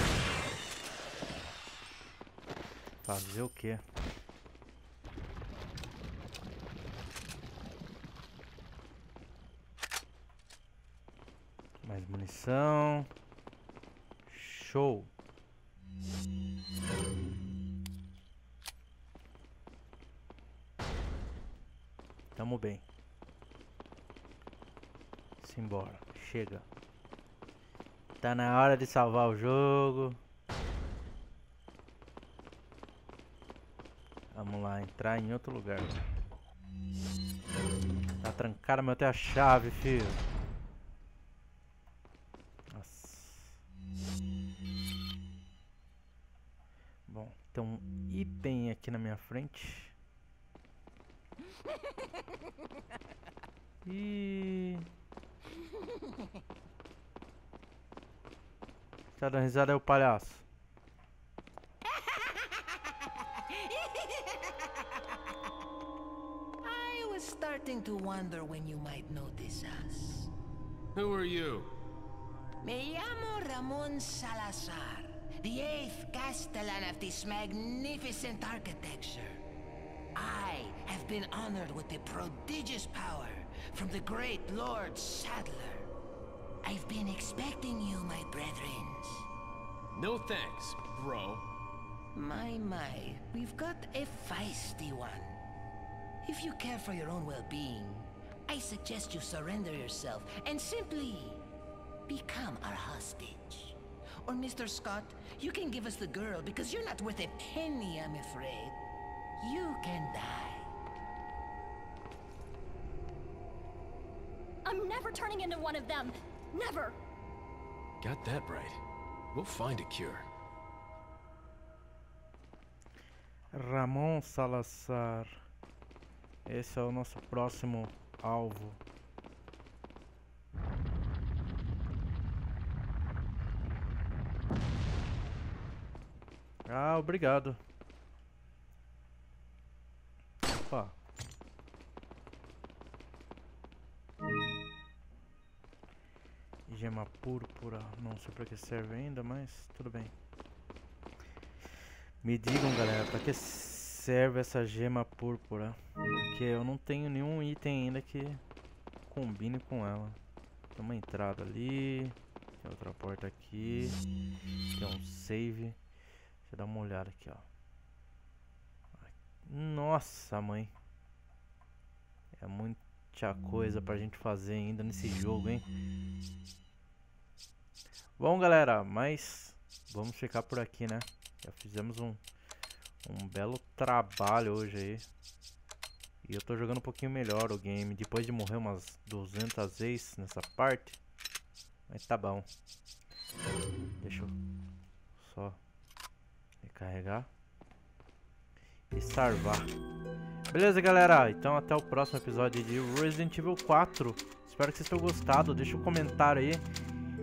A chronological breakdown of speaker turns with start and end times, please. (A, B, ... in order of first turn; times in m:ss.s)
0:03.0-0:03.8 A
0:11.8-0:13.1 A
0:14.3-0:15.1 A
0:22.4-0:22.8 A
0:25.4-0:26.7 A
0:28.2-0:30.2 A
0:34.3-0:36.1 A
0:38.2-0:40.2 A
0:42.7-0:43.6 A
0:47.1-0:50.0 A
0:53.8-0:54.9 A
0:59.2-1:00.4 A
1:03.5-1:04.6 B
1:06.6-1:10.3 B
1:11.0-1:11.7 C
1:12.6-1:19.4 B
1:20.2-1:25.9 B
1:26.6-1:29.3 B
1:29.9-1:31.4 C
1:32.2-1:35.4 B
1:36.2-1:41.4 B
1:42.1-1:48.8 B
1:49.4-1:50.7 B
1:54.6-1:57.0 D
1:58.0-1:58.8 C
1:59.3-2:00.3 C
2:03.5-2:05.4 A
2:06.4-2:08.8 A
2:16.7-2:17.6 A
2:20.5-2:21.0 A
2:26.7-2:30.1 A
2:32.2-2:38.4 A
2:39.1-2:40.2 A
2:40.8-2:44.0 A
2:44.8-2:45.8 A
2:46.5-2:47.5 A
2:49.0-2:50.7 A
2:52.3-2:55.6 A
2:58.2-3:02.2 A
3:03.0-3:05.1 A
3:06.2-3:11.0 A
3:11.9-3:12.5 A
3:14.0-3:14.4 A
3:15.2-3:15.6 A
3:16.6-3:17.3 A
3:18.9-3:19.7 A
3:20.5-3:26.7 A